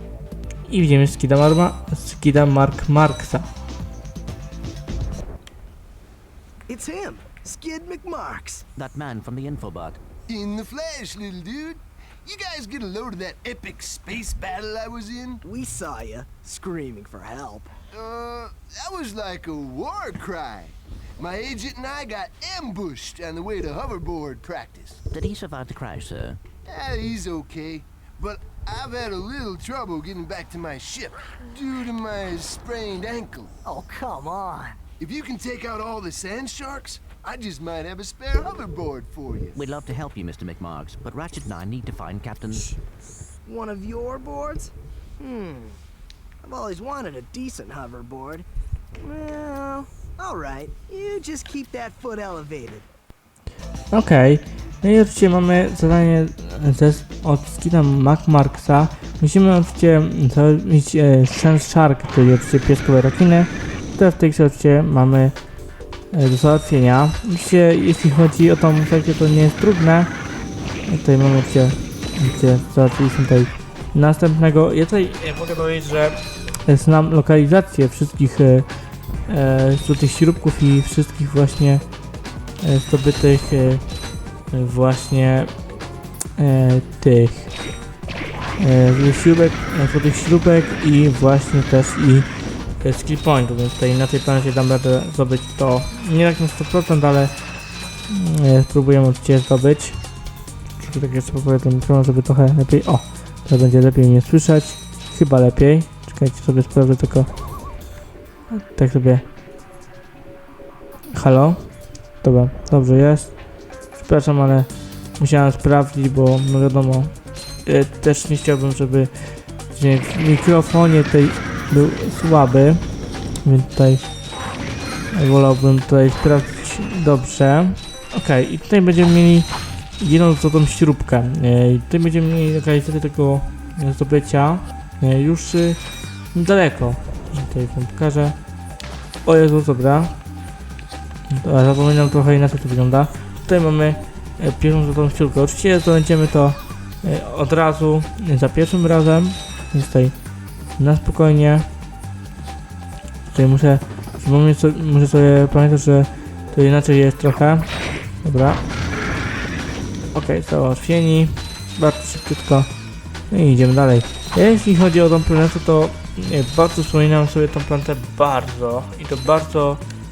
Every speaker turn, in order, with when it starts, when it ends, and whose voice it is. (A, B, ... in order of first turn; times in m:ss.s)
0:00.7-0:03.5 A
0:06.7-0:08.7 B
0:08.8-0:10.0 C
0:10.3-0:15.4 D
0:15.4-0:17.7 B
0:17.9-0:25.0 D
0:25.1-0:26.4 C
0:26.6-0:33.5 D
0:33.6-0:34.8 B
0:35.0-0:39.6 D
0:39.6-0:42.8 C
0:43.4-0:45.8 B
0:46.4-0:48.5 B
0:49.0-0:52.9 B
0:53.9-1:05.4 A
1:06.1-1:10.2 A
1:10.9-1:18.7 A
1:19.3-1:21.8 A
1:22.6-1:23.8 A
1:24.5-1:25.6 A
1:26.4-1:27.6 A
1:28.6-1:37.5 A
1:38.1-1:40.0 A
1:40.8-1:47.3 A
1:48.5-1:49.2 A
1:51.1-1:51.7 A
1:52.2-1:53.4 A
1:53.9-2:02.9 A
2:03.4-2:04.1 A
2:05.1-2:15.8 A
2:16.3-2:18.4 A
2:19.2-2:20.2 A
2:21.3-2:30.2 A
2:30.8-2:31.7 A
2:33.3-2:38.6 A
2:40.1-2:42.7 A
2:43.3-2:49.8 A